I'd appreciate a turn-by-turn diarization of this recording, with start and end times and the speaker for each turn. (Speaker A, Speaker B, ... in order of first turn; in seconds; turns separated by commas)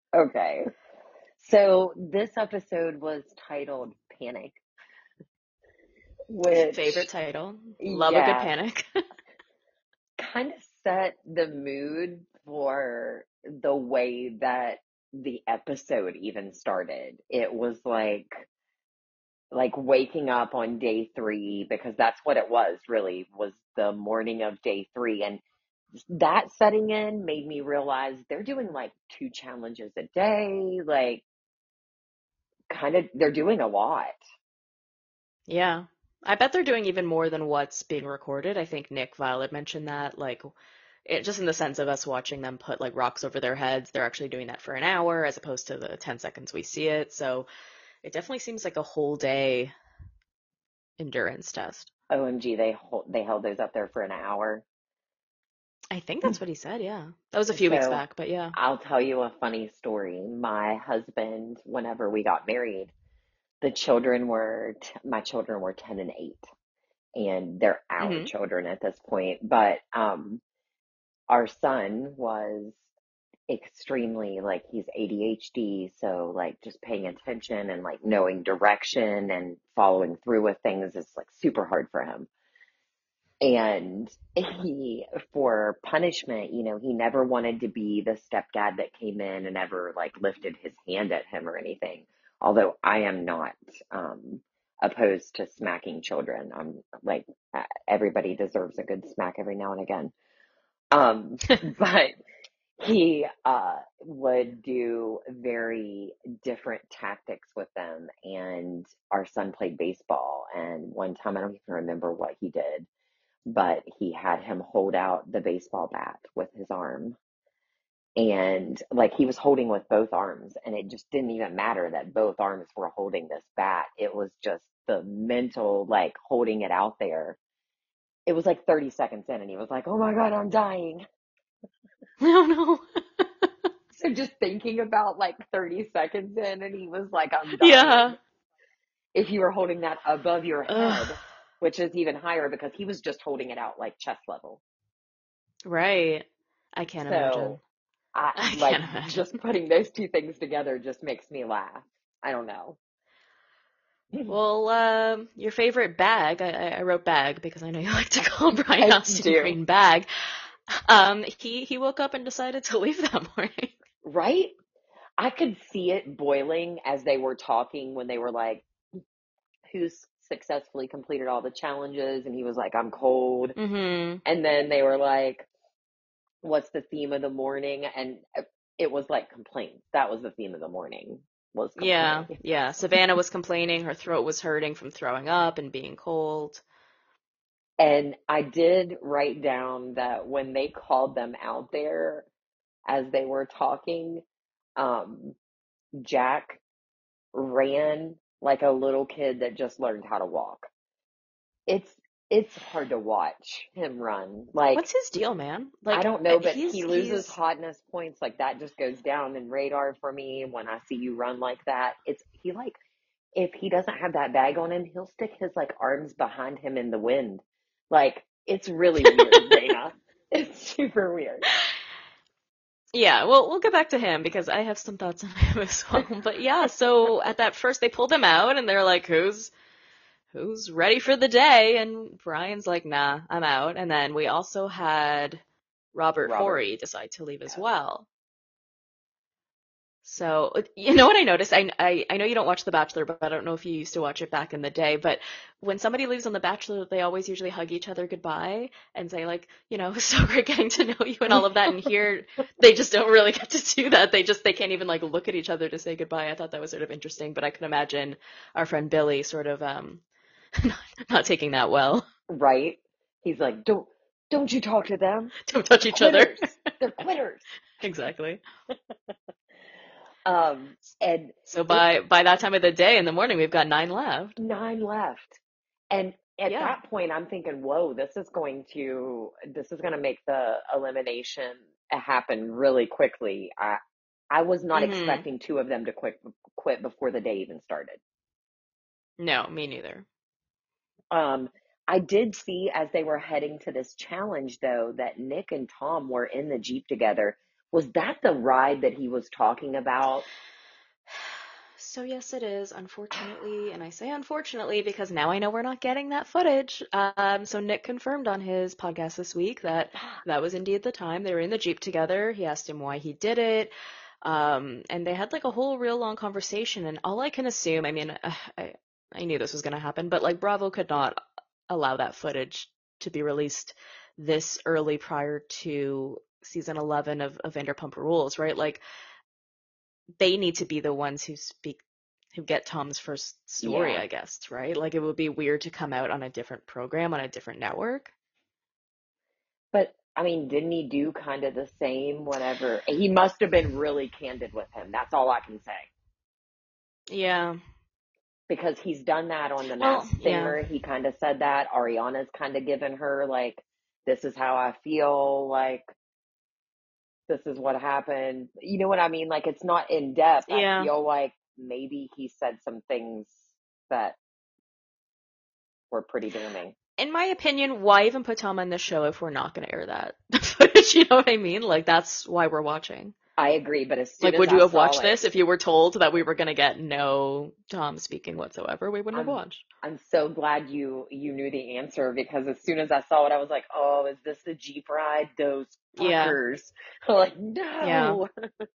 Speaker A: 0.1-0.7, Speaker A: 1.4-4.6, Speaker A: 6.3-7.1, Speaker B: 6.5-8.8, Speaker A: 7.8-8.5, Speaker A: 10.2-18.5, Speaker A: 19.5-25.4, Speaker A: 26.1-31.2, Speaker A: 32.7-34.2, Speaker B: 35.5-47.5, Speaker B: 48.0-49.7, Speaker B: 51.0-51.9, Speaker A: 52.1-54.6, Speaker B: 55.9-58.5, Speaker A: 57.5-58.0, Speaker A: 58.5-62.9, Speaker A: 63.6-66.4, Speaker A: 67.2-70.4, Speaker B: 68.0-68.3, Speaker A: 71.3-72.8, Speaker A: 73.5-82.3, Speaker A: 83.4-100.1, Speaker A: 100.9-102.2, Speaker A: 102.8-112.9, Speaker A: 113.5-117.2, Speaker A: 118.2-127.4, Speaker A: 128.3-131.1, Speaker B: 132.2-133.7, Speaker A: 133.9-138.2, Speaker B: 137.6-138.2, Speaker A: 139.1-144.6, Speaker B: 140.7-141.2, Speaker B: 145.7-147.6, Speaker A: 147.0-147.6, Speaker A: 148.2-152.8, Speaker B: 148.4-149.3, Speaker B: 154.3-160.1, Speaker A: 158.8-159.6, Speaker B: 160.7-163.8, Speaker A: 164.0-164.6, Speaker A: 165.2-168.7, Speaker A: 169.7-173.6, Speaker B: 173.6-174.2, Speaker A: 174.2-175.5, Speaker A: 176.4-182.4, Speaker B: 181.8-186.6, Speaker A: 187.8-192.3, Speaker A: 192.9-194.2, Speaker A: 194.8-195.4, Speaker A: 196.0-196.6, Speaker A: 197.3-200.7, Speaker A: 201.7-204.9, Speaker B: 204.8-207.3, Speaker A: 205.9-212.8, Speaker A: 213.3-221.5, Speaker B: 219.1-219.7, Speaker B: 222.9-229.5, Speaker B: 230.3-235.4, Speaker B: 235.9-238.1, Speaker A: 236.2-236.6, Speaker B: 240.0-260.0, Speaker B: 260.6-262.1, Speaker A: 262.3-267.5, Speaker B: 265.4-266.4, Speaker B: 267.8-268.4, Speaker A: 270.3-271.9, Speaker B: 271.5-274.4, Speaker A: 274.4-275.4, Speaker A: 275.9-283.8, Speaker B: 276.5-276.8, Speaker A: 284.3-288.0, Speaker B: 284.8-285.2, Speaker B: 289.2-290.1, Speaker A: 291.1-300.3, Speaker B: 301.8-313.7, Speaker B: 314.2-328.8, Speaker B: 330.2-331.8, Speaker B: 332.3-338.1, Speaker A: 333.6-334.0, Speaker A: 339.7-345.9, Speaker B: 347.1-347.6, Speaker A: 348.5-355.9, Speaker B: 349.8-350.6, Speaker A: 357.3-364.2, Speaker B: 360.5-360.9, Speaker A: 365.9-366.8, Speaker B: 367.0-373.1, Speaker A: 373.4-375.2, Speaker B: 374.2-379.6, Speaker A: 379.1-388.3, Speaker B: 386.0-386.4, Speaker B: 387.8-388.2